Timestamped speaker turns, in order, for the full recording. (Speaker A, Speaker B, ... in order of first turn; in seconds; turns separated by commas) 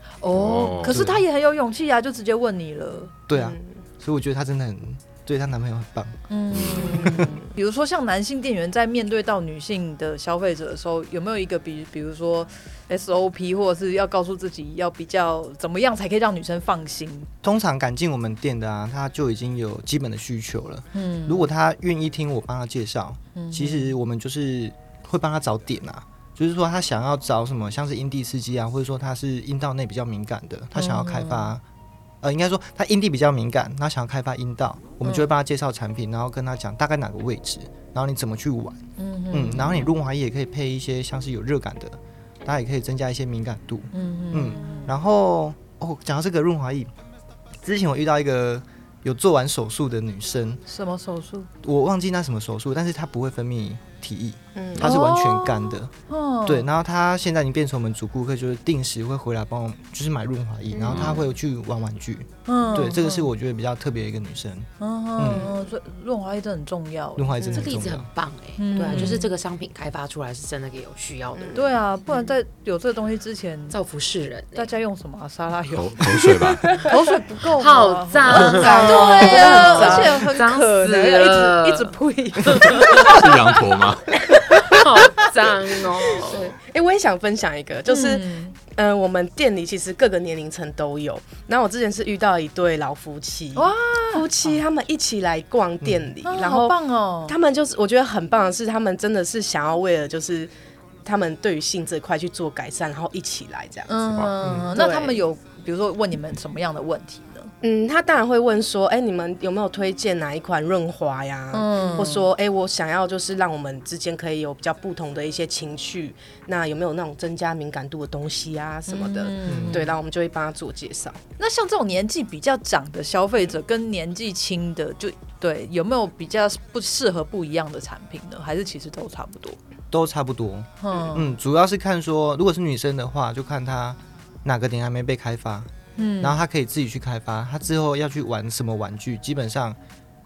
Speaker A: 0.2-3.1, Speaker B: 0.3-1.1, Speaker C: 0.9-1.2, Speaker C: 3.3-6.2, Speaker D: 3.3-3.7, Speaker A: 6.3-17.3, Speaker B: 6.5-7.2, Speaker D: 7.0-7.5, Speaker C: 17.4-31.6, Speaker A: 20.9-21.5, Speaker A: 23.4-23.9, Speaker A: 30.8-31.5, Speaker C: 32.2-46.9, Speaker A: 35.0-35.3, Speaker A: 39.0-39.9, Speaker A: 43.9-44.9, Speaker C: 47.6-50.6, Speaker A: 50.7-51.5, Speaker C: 51.6-55.9, Speaker D: 54.5-54.9, Speaker A: 54.8-56.7, Speaker C: 56.5-65.5, Speaker E: 60.8-61.1, Speaker B: 60.9-61.2, Speaker A: 62.5-63.3, Speaker A: 64.8-67.3, Speaker C: 67.2-68.1, Speaker E: 67.4-71.6, Speaker A: 68.6-69.3, Speaker D: 68.8-69.1, Speaker D: 71.3-71.6, Speaker A: 71.5-73.8, Speaker E: 73.7-74.7, Speaker A: 74.5-83.2, Speaker B: 75.8-76.7, Speaker E: 77.6-83.2, Speaker D: 78.2-80.3, Speaker B: 82.7-84.1, Speaker D: 84.4-84.8, Speaker E: 84.5-86.5, Speaker A: 84.5-84.8, Speaker D: 86.2-100.5, Speaker A: 87.9-88.5, Speaker A: 93.5-94.6, Speaker A: 96.2-97.4, Speaker D: 101.0-104.0, Speaker A: 103.9-107.5, Speaker C: 104.4-104.7, Speaker D: 104.7-105.2, Speaker D: 107.6-121.2, Speaker A: 111.5-112.3, Speaker A: 118.9-120.0, Speaker C: 119.5-119.9, Speaker A: 121.4-129.6, Speaker C: 129.9-139.8, Speaker A: 130.8-131.4, Speaker A: 136.0-136.4